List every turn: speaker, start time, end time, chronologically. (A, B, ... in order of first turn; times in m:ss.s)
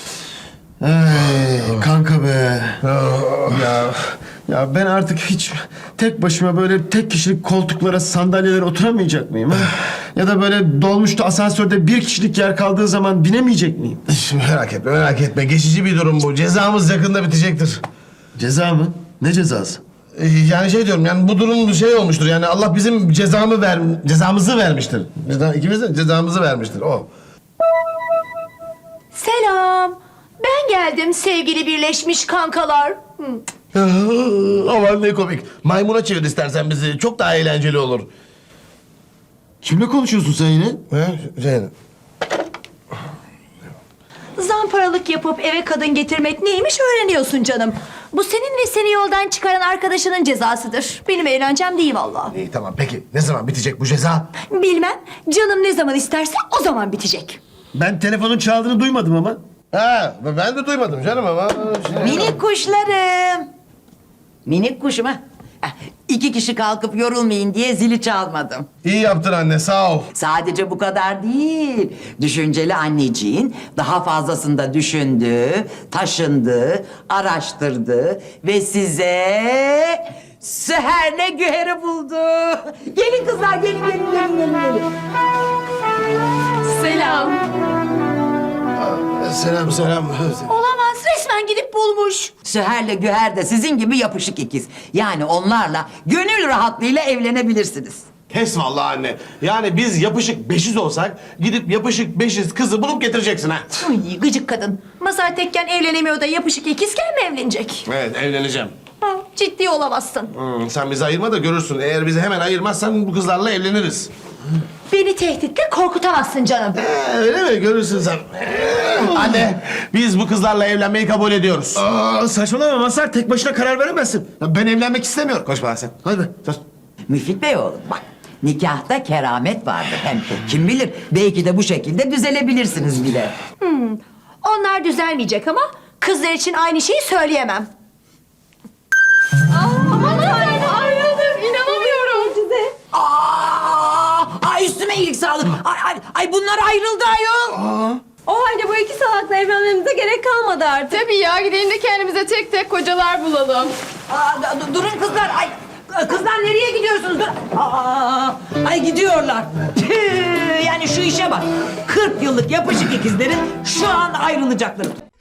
0:00.8-0:02.8 A
0:02.8-0:03.8 B
0:03.6-0:14.0 A
0:14.1-0:17.8 B
0:18.3-0:19.8 A
0:20.1-0:27.1 B
0:29.1-0:33.3 C
0:33.7-0:38.1 B
0:39.6-0:40.8 A
0:40.9-0:41.7 B
0:44.4-0:52.3 C
0:52.3-0:54.3 B
0:54.5-0:57.4 C
0:57.7-0:59.4 A
0:59.7-1:02.4 B
1:02.0-1:03.5 D
1:04.4-1:08.6 D
1:08.8-1:10.1 B
1:10.1-1:24.8 D
1:28.8-1:30.5 B
1:30.5-1:32.3 C
1:32.4-1:38.0 D
1:38.3-1:43.9 B
1:43.8-1:47.8 C
1:47.8-1:48.7 B
1:49.3-1:50.3 C
1:50.3-1:54.1 B
1:54.9-1:56.8 C
1:56.7-2:01.8 B
2:01.8-2:04.6 A
2:04.7-2:06.4 B
2:07.1-2:13.3 D
2:13.6-2:17.7 C
2:19.7-2:22.4 E
2:21.7-2:22.0 C
2:22.9-2:27.7 D
2:30.9-2:33.7 E
2:34.1-2:45.0 D